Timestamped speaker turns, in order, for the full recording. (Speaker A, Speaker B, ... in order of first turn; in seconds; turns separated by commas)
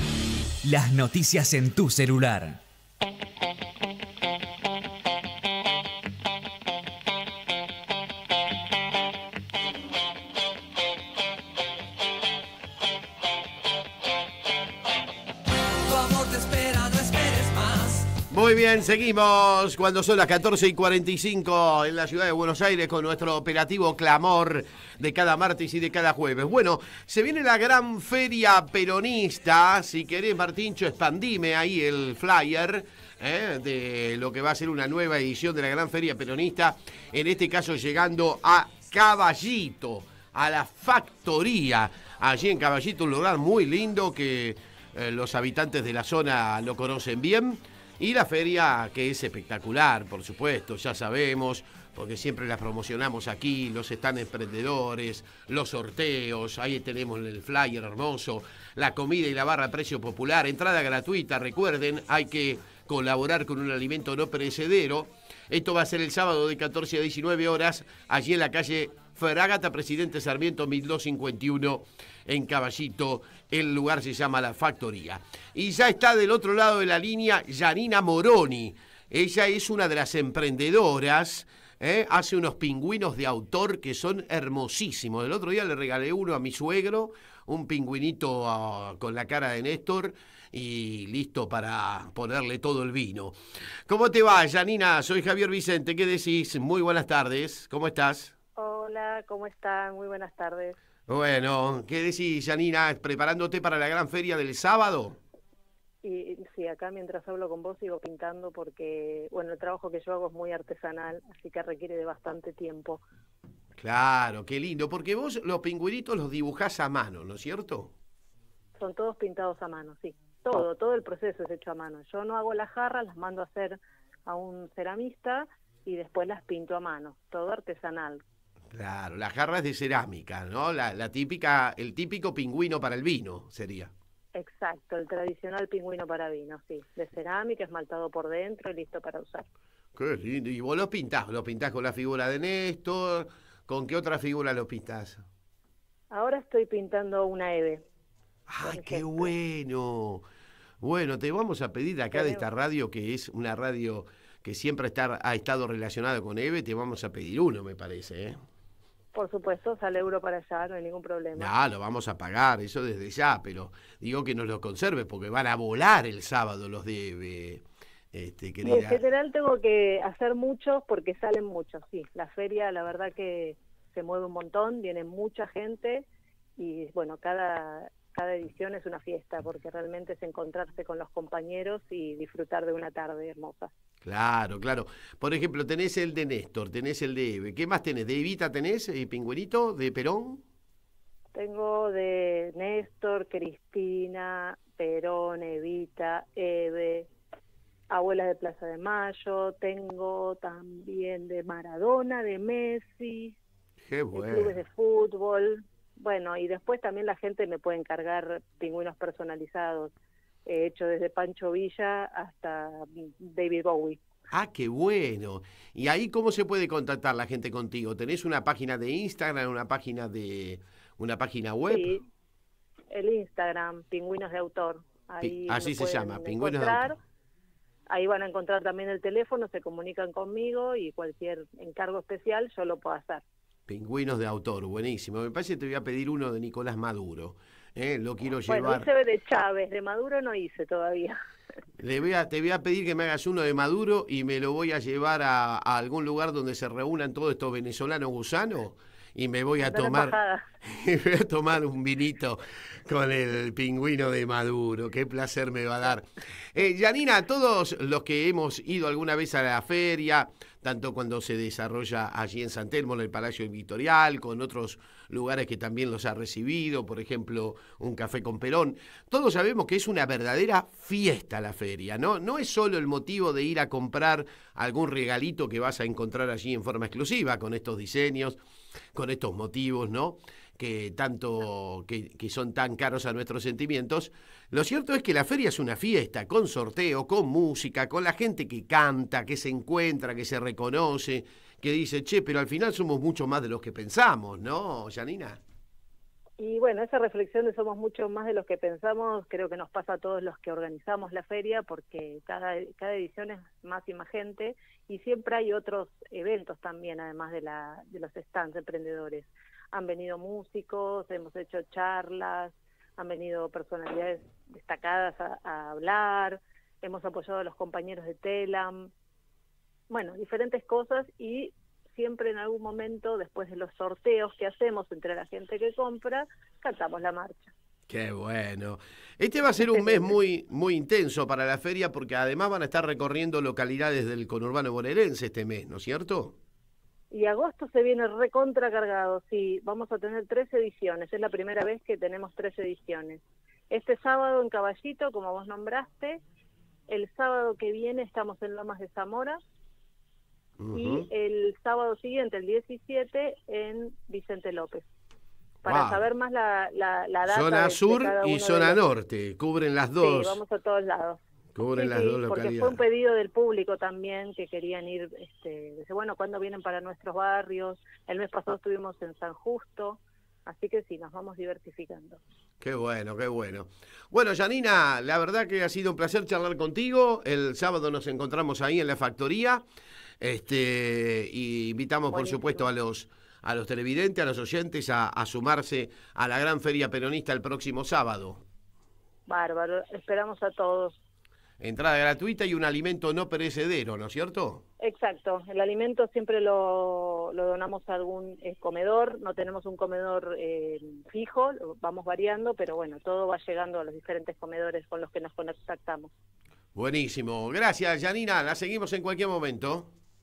Speaker A: 0.6-2.6, Speaker A: 15.9-18.1, Speaker B: 18.3-93.3, Speaker B: 93.9-98.3, Speaker C: 98.6-100.8, Speaker B: 101.1-105.2, Speaker C: 106.0-113.0, Speaker B: 113.8-117.9, Speaker C: 118.8-128.2, Speaker B: 128.7-133.9, Speaker C: 134.3-139.4, Speaker B: 139.9-145.2, Speaker C: 146.1-147.8, Speaker B: 148.5-150.2, Speaker C: 148.6-149.3, Speaker B: 150.8-158.4, Speaker C: 152.1-152.4, Speaker C: 159.1-161.5, Speaker B: 161.3-169.0, Speaker C: 168.6-176.1, Speaker C: 176.6-183.7, Speaker B: 184.0-190.4, Speaker C: 191.3-197.1, Speaker C: 197.9-203.3, Speaker B: 203.9-204.6, Speaker C: 204.1-209.9, Speaker C: 210.5-214.0, Speaker B: 214.3-221.9, Speaker C: 221.7-222.0, Speaker C: 222.9-226.9, Speaker B: 225.2-226.9, Speaker C: 227.9-233.2, Speaker B: 233.7-238.9, Speaker C: 238.5-241.2, Speaker B: 241.8-250.2, Speaker C: 249.6-250.4, Speaker B: 250.7-278.4, Speaker B: 278.9-295.4, Speaker C: 296.4-318.9, Speaker C: 319.9-327.5, Speaker B: 327.9-336.4, Speaker C: 329.6-330.2, Speaker C: 337.1-346.2, Speaker C: 346.9-349.4, Speaker B: 350.6-351.1, Speaker C: 350.7-354.9, Speaker C: 355.6-358.8, Speaker B: 355.6-356.1, Speaker B: 357.2-360.4, Speaker C: 360.0-361.2, Speaker B: 361.6-362.8, Speaker C: 361.8-372.2, Speaker B: 372.6-379.6, Speaker B: 380.2-388.4, Speaker C: 382.1-382.7, Speaker C: 389.3-391.0, Speaker B: 391.6-394.6, Speaker C: 394.8-406.1, Speaker B: 406.7-409.9